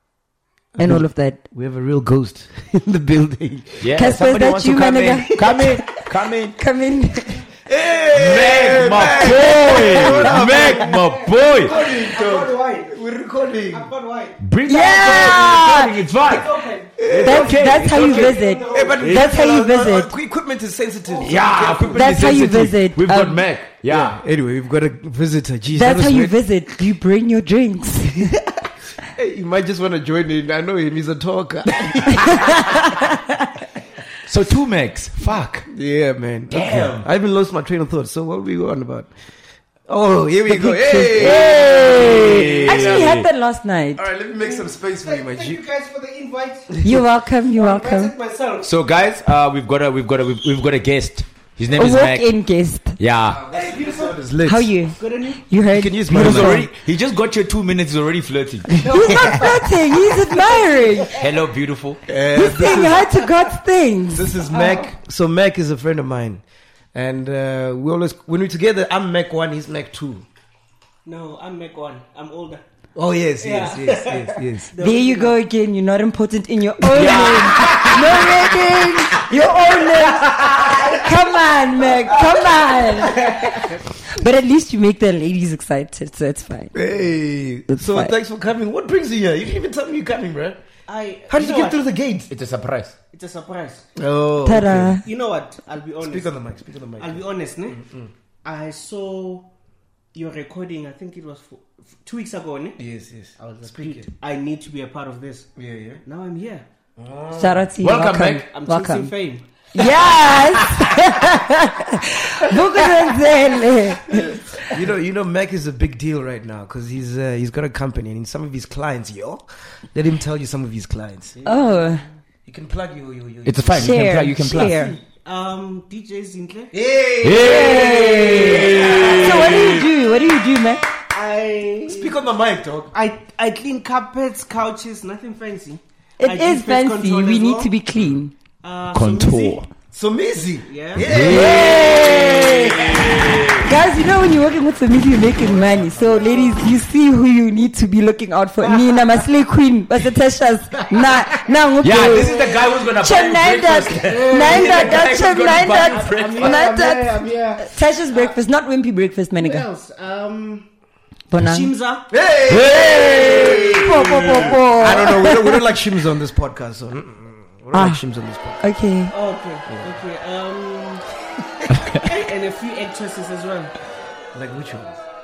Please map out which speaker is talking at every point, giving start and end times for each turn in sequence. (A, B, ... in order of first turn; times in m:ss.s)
0:00.8-0:04.1 A
0:00.8-0:01.4 B
0:03.8-0:06.6 C
0:04.0-0:05.8 B
0:05.4-0:05.6 A
0:06.6-0:07.4 B
0:07.7-0:11.0 A
0:08.1-0:11.7 C
0:09.2-0:10.0 B
0:10.3-0:13.0 D
0:11.6-0:13.9 A
0:13.7-0:14.4 D
0:14.4-0:18.4 C
0:14.7-0:15.9 B
0:16.2-0:19.2 D
0:17.0-0:17.8 A
0:17.2-0:20.1 B
0:18.7-0:22.7 A
0:21.1-0:21.4 D
0:21.2-0:24.2 C
0:22.0-0:23.4 B
0:23.9-0:26.4 A
0:25.7-0:28.3 B
0:29.1-0:32.8 A
0:32.2-0:33.1 B
0:34.2-0:35.7 C
0:35.7-0:39.3 A
0:36.5-0:37.1 C
0:39.9-0:43.1 A
0:40.5-0:44.0 B
0:41.2-0:43.3 C
0:44.0-0:45.6 A
0:44.4-0:46.8 D
0:46.8-0:48.1 B
0:47.6-0:48.7 D
0:48.6-0:52.3 C
0:51.7-0:53.0 B
0:53.0-0:53.4 C
0:53.3-0:54.7 A
0:53.5-0:54.2 D
0:54.5-0:56.7 B
0:55.0-0:55.4 D
0:55.7-0:56.7 A
0:56.1-0:58.8 C
0:58.8-1:01.2 D
0:58.8-0:59.5 A
0:58.8-1:01.2 B
1:01.2-1:02.0 C
1:02.1-1:03.2 A
1:02.3-1:04.4 B
1:02.7-1:03.0 D
1:04.1-1:06.4 A
1:04.5-1:04.9 D
1:06.9-1:10.2 A
1:11.0-1:12.6 D
1:13.0-1:14.7 A
1:13.4-1:15.4 D
1:14.8-1:23.4 B
1:16.9-1:18.3 C
1:23.0-1:23.7 D
1:24.1-1:26.7 B
1:26.7-1:30.6 A
1:27.7-1:28.1 B
1:30.9-1:31.8 D
1:31.3-1:32.3 A
1:32.3-1:33.0 C
1:33.1-1:33.9 D
1:34.0-1:35.0 A
1:34.4-1:35.0 B
1:35.0-1:36.4 D
1:36.0-1:38.1 A
1:37.0-1:37.8 D
1:38.4-1:39.5 D
1:40.1-1:42.8 D
1:42.8-1:44.1 A
1:43.4-1:45.5 D
1:45.6-1:46.0 A
1:46.0-1:46.6 D
1:47.0-1:47.7 A
1:47.4-1:49.1 B
1:47.8-1:48.5 C
1:48.5-1:49.5 D
1:49.7-1:54.4 B
1:54.3-2:01.4 A
2:01.4-2:02.0 D
2:01.4-2:02.0 B
2:02.4-2:04.1 A
2:03.4-2:04.8 C
2:03.7-2:05.0 B
2:04.6-2:06.8 D
2:06.7-2:09.6 A
2:07.2-2:09.7 C
2:07.3-2:10.8 B
2:08.1-2:09.2 D
2:11.1-2:12.1 D
2:11.9-2:12.9 A
2:12.9-2:17.8 D
2:16.2-2:18.3 B
2:18.6-2:19.6 D
2:18.9-2:19.7 C
2:19.9-2:22.6 A
2:20.6-2:21.1 D
2:21.0-2:23.7 C
2:21.3-2:22.8 B
2:23.6-2:32.4 B
2:25.5-2:26.7 D
2:28.6-2:29.3 D
2:31.8-2:36.6 C
2:32.1-2:32.7 D
2:33.0-2:39.7 B
2:34.0-2:35.1 D
2:35.9-2:38.4 D
2:39.4-2:40.7 D
2:41.3-2:41.7 B
2:41.4-2:42.1 D
2:42.1-2:48.6 A
2:42.5-2:44.5 C
2:43.3-2:43.8 D
2:43.7-2:45.7 B
2:47.7-2:48.0 B
2:48.6-2:49.1 B
2:49.1-2:51.0 D
2:49.7-2:49.9 A
2:52.0-2:53.7 D
2:54.3-2:55.0 A